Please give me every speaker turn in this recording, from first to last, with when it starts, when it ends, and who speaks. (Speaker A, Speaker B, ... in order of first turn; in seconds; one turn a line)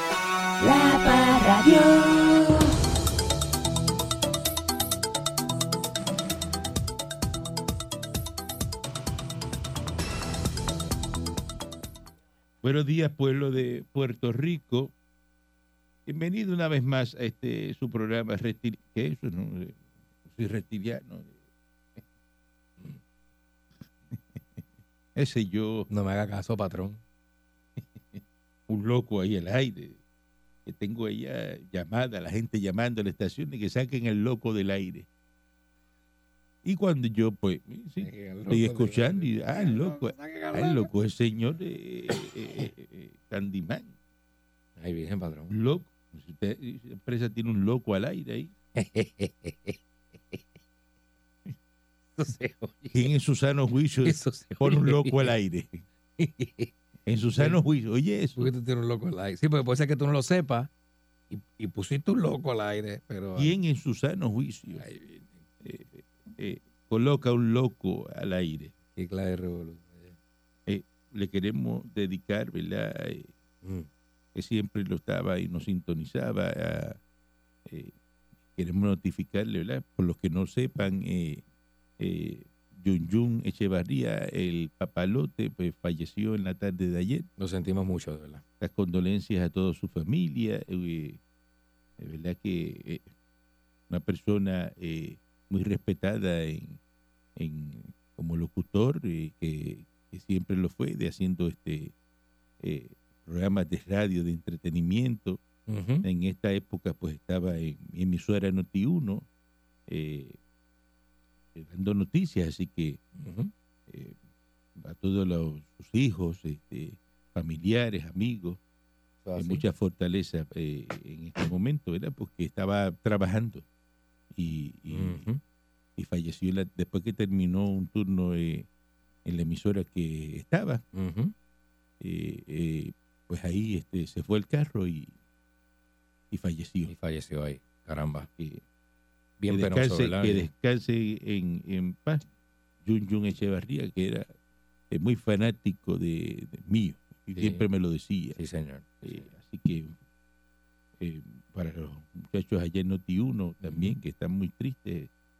Speaker A: 0.6-2.7
Speaker B: 12.6-14.9
Speaker B: 16.1-21.3
Speaker B: 25.1-25.9
Speaker C: 25.9-27.0
Speaker B: 28.1-30.0
Speaker B: 30.6-35.1
Speaker B: 36.6-43.9
Speaker C: 38.0-40.9
Speaker C: 44.8-45.5
Speaker B: 45.5-48.5
Speaker C: 48.7-49.8
Speaker C: 52.1-53.1
Speaker B: 52.9-55.8
Speaker C: 54.0-55.3
Speaker C: 56.2-56.7
Speaker B: 57.1-58.5
Speaker C: 58.4-60.7
Speaker C: 61.3-63.5
Speaker B: 63.4-64.8
Speaker C: 64.8-65.3
Speaker B: 65.6-68.7
Speaker C: 68.9-70.1
Speaker B: 70.7-73.3
Speaker C: 73.6-73.9
Speaker B: 74.3-77.0
Speaker B: 77.7-77.9
Speaker B: 78.5-81.4
Speaker B: 82.0-87.3
Speaker C: 87.4-88.4
Speaker B: 88.6-91.2
Speaker B: 92.0-93.0
Speaker B: 93.9-96.8
Speaker B: 97.3-101.9
Speaker B: 102.6-105.4
Speaker C: 105.7-106.0
Speaker B: 106.0-109.2
Speaker B: 109.9-110.4
Speaker B: 111.5-113.0
Speaker C: 113.2-113.5
Speaker B: 113.9-114.2
Speaker B: 114.8-118.6
Speaker C: 119.2-119.6
Speaker B: 119.4-123.6
Speaker B: 124.3-125.3
Speaker C: 124.9-125.4
Speaker B: 126.0-128.7
Speaker B: 129.2-130.8
Speaker C: 130.9-131.3
Speaker B: 132.0-135.1
Speaker B: 136.3-136.9
Speaker C: 136.9-138.3
Speaker C: 139.4-140.5
Speaker B: 139.5-142.2
Speaker B: 142.8-144.3
Speaker B: 144.9-148.4
Speaker C: 147.3-147.6
Speaker C: 148.3-149.3
Speaker B: 149.0-149.9
Speaker B: 151.0-155.1
Speaker C: 153.6-153.9